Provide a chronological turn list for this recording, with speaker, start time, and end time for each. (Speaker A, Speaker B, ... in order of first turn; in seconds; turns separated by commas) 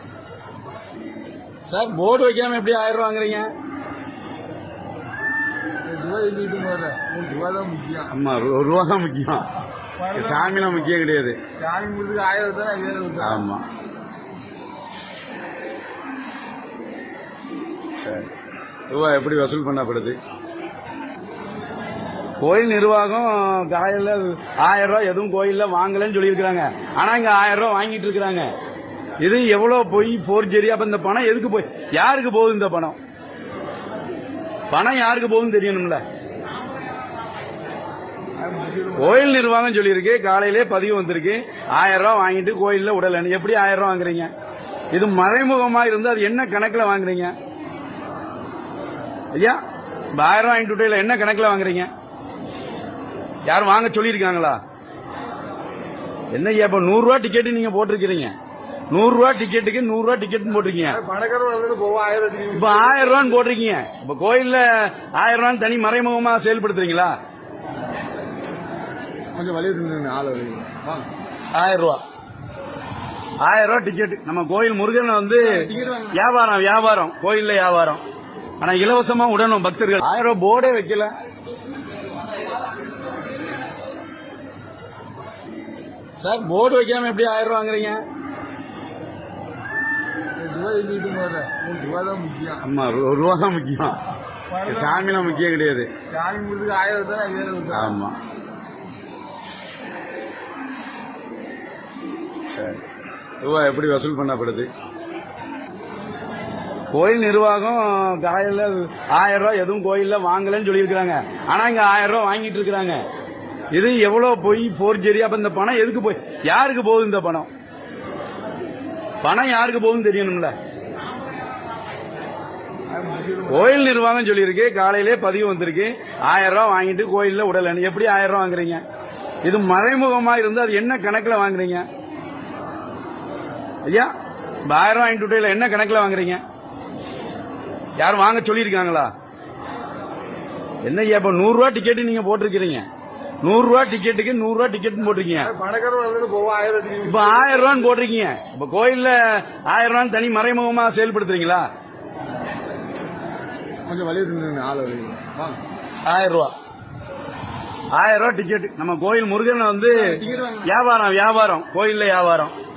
Speaker A: 1.7-3.5, Speaker B: 5.8-8.1, Speaker A: 8.1-9.5, Speaker B: 10.0-10.9, Speaker A: 10.1-11.4, Speaker B: 11.6-13.5, Speaker A: 13.2-13.6, Speaker A: 18.0-18.3, Speaker A: 18.9-20.2, Speaker A: 22.4-28.5, Speaker A: 29.2-33.0, Speaker A: 34.7-36.0, Speaker B: 38.4-39.4, Speaker A: 39.0-44.3, Speaker A: 44.9-47.3, Speaker A: 49.3-49.6, Speaker A: 50.1-51.9, Speaker A: 53.5-54.6, Speaker A: 56.3-58.3, Speaker A: 58.9-61.0, Speaker B: 60.7-63.3, Speaker A: 62.5-67.2, Speaker B: 69.3-71.1, Speaker A: 71.5-72.0, Speaker A: 73.4-78.0, Speaker B: 75.4-76.2, Speaker A: 78.6-81.1, Speaker A: 86.2-88.0, Speaker B: 90.4-92.6, Speaker A: 92.6-94.0, Speaker B: 94.5-95.4, Speaker A: 94.7-95.9, Speaker B: 96.1-98.0, Speaker A: 97.7-98.2, Speaker A: 102.5-102.8, Speaker A: 103.4-104.7, Speaker A: 106.9-113.0, Speaker A: 113.7-117.5, Speaker A: 119.2-120.5, Speaker B: 122.9-123.8, Speaker A: 123.5-128.8, Speaker A: 129.4-131.9, Speaker A: 133.9-134.1, Speaker A: 134.7-136.4, Speaker A: 138.0-139.1, Speaker A: 140.8-142.9, Speaker A: 143.4-145.5, Speaker B: 145.3-147.9, Speaker A: 147.1-151.7, Speaker B: 153.9-155.6, Speaker A: 156.1-156.5, Speaker A: 157.9-162.5, Speaker B: 159.9-160.7